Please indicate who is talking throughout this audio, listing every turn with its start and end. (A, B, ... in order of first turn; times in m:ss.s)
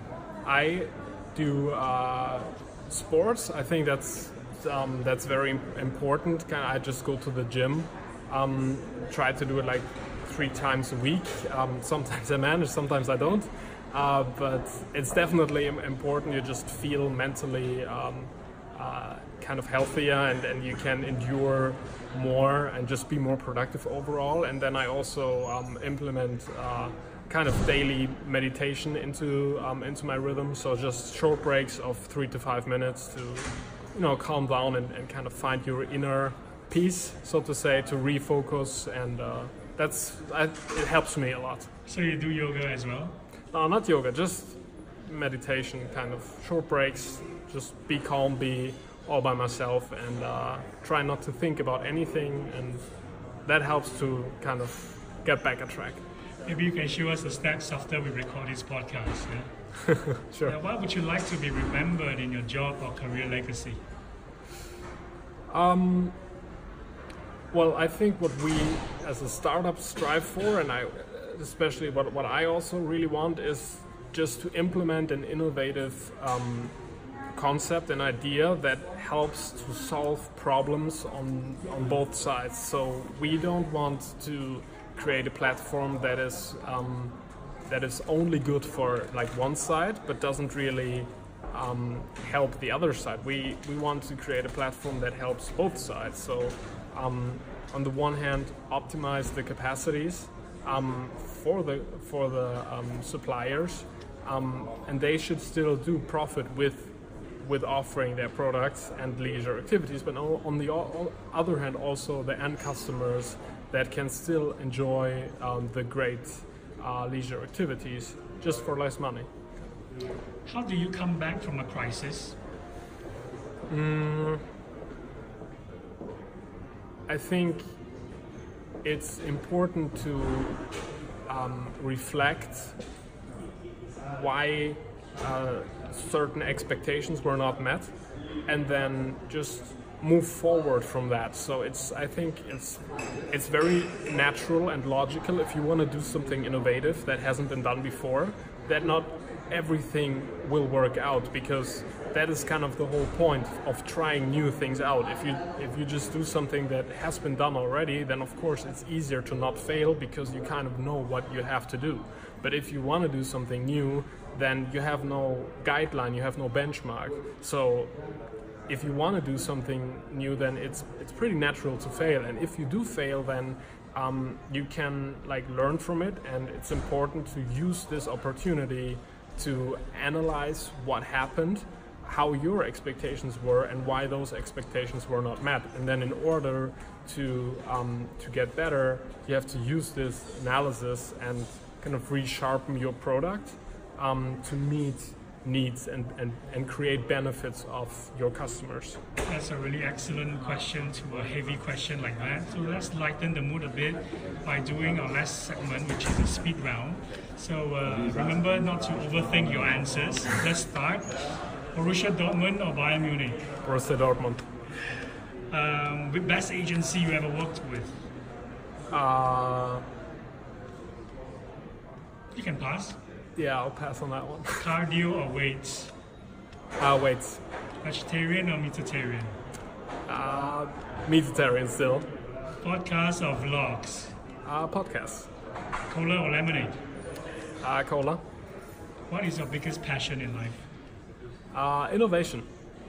0:00.4-0:41.7 A
0:41.9-0:43.2 B
0:43.5-0:52.8 A
0:53.5-0:56.0 A
0:56.4-0:59.5 B
1:00.2-1:00.6 A
1:00.4-1:03.8 B
1:05.5-1:06.2 A
1:07.5-1:16.8 A
1:17.3-1:59.3 A
2:00.5-2:02.4 B
2:03.7-2:04.4 A
2:07.1-2:07.7 A
2:08.8-2:10.6 A
2:11.3-2:12.8 A
2:14.1-2:17.9 A
2:18.5-2:48.0 A
2:48.7-3:19.0 A
3:19.2-3:31.2 B
3:31.7-3:33.4 B
3:33.6-3:34.4 A
3:35.5-3:38.0 B
3:38.9-3:39.9 A
3:42.3-3:43.0 B
3:43.4-3:44.7 A
3:44.6-3:45.9 B
3:46.8-3:47.4 A
3:47.8-3:49.4 B
3:50.1-3:52.1 A
3:52.6-3:54.2 B
3:54.4-3:55.3 A
3:55.9-3:56.8 B
3:57.6-3:58.2 A
3:59.1-4:00.6 B
4:01.5-4:02.5 A